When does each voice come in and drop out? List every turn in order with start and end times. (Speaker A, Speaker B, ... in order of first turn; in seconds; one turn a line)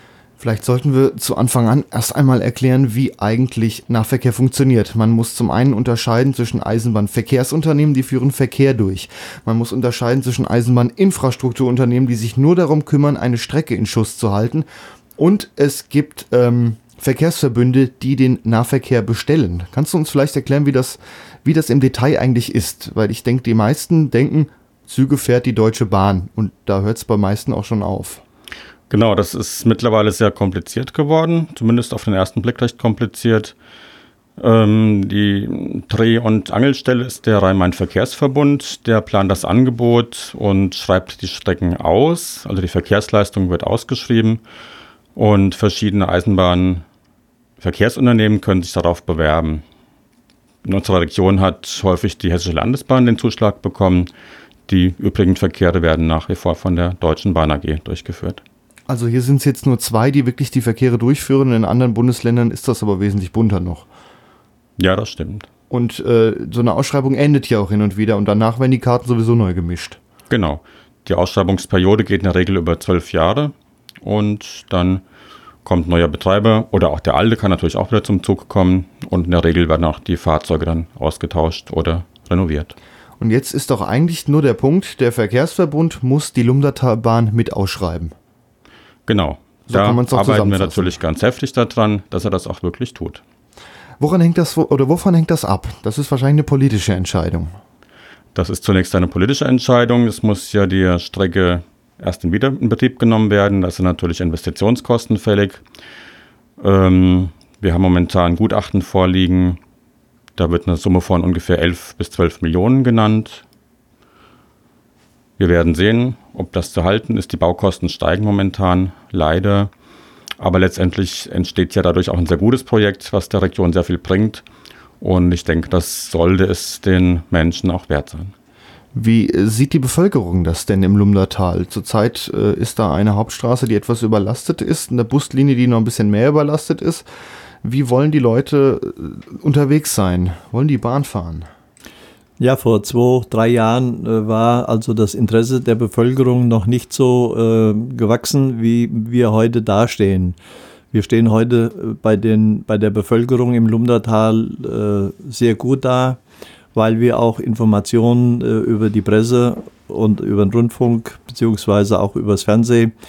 Speaker A: 0.4-28.2
Speaker B: 28.9-33.5
Speaker B: 34.4-44.4
Speaker B: 45.1-46.8
Speaker B: 47.6-49.6
Speaker B: 50.6-54.1
Speaker B: 54.7-58.4
Speaker A: 58.9-63.9
Speaker B: 64.8-65.5
Speaker A: 65.7-70.0
Speaker B: 70.3-75.0
Speaker B: 75.6-82.7
Speaker A: 83.2-88.1
Speaker B: 89.1-93.2
Speaker A: 89.7-91.0
Speaker A: 94.0-97.5
Speaker B: 98.3-105.6
Speaker B: 106.6-109.6
Speaker B: 110.4-113.4
Speaker B: 115.4-119.7
Speaker B: 120.4-124.4
Speaker B: 125.0-128.3
Speaker A: 128.9-137.1
Speaker A: 137.6-141.5
Speaker C: 142.4-150.4
Speaker C: 150.9-156.2
Speaker C: 156.7-162.9